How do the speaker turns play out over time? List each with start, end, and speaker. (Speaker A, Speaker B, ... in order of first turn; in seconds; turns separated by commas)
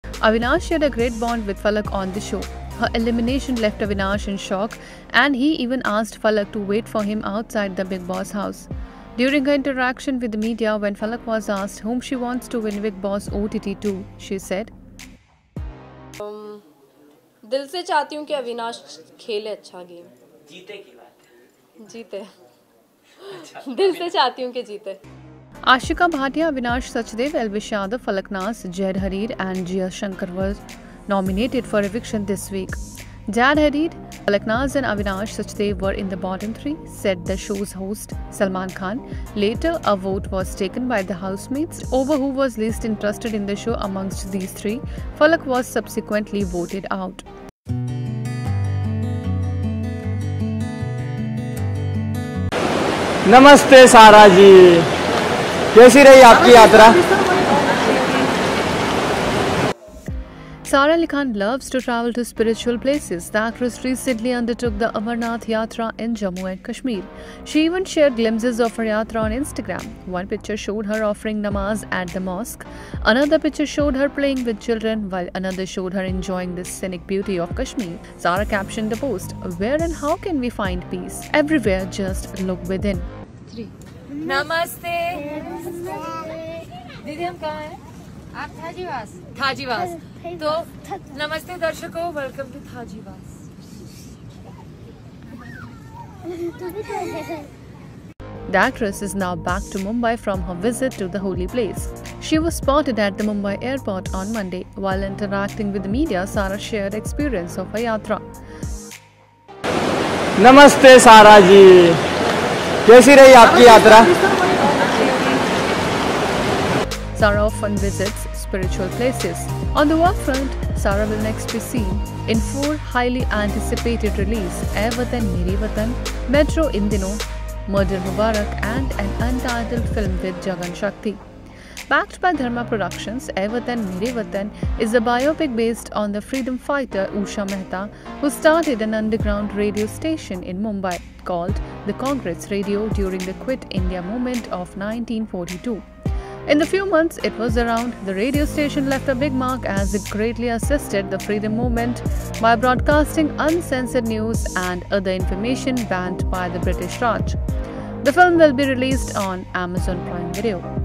Speaker A: 0.2-14.7, Speaker B: 16.2-16.6, Speaker B: 17.4-20.1, Speaker C: 20.6-21.1, Speaker B: 21.8-22.3, Speaker B: 23.2-25.0, Speaker C: 23.6-23.8, Speaker A: 25.7-47.2, Speaker D: 53.3-54.9, Speaker D: 55.7-57.2, Speaker C: 57.8-58.1, Speaker A: 60.7-83.1, Speaker C: 83.5-86.4, Speaker C: 87.0-87.8, Speaker C: 88.3-93.3, Speaker A: 98.5-108.2, Speaker D: 110.4-112.0, Speaker D: 112.8-114.3, Speaker B: 114.8-115.3, Speaker C: 115.0-115.4, Speaker A: 117.1-131.2, Speaker A: 131.9-145.8, Speaker A: 146.5-157.4, Speaker A: 158.0-160.7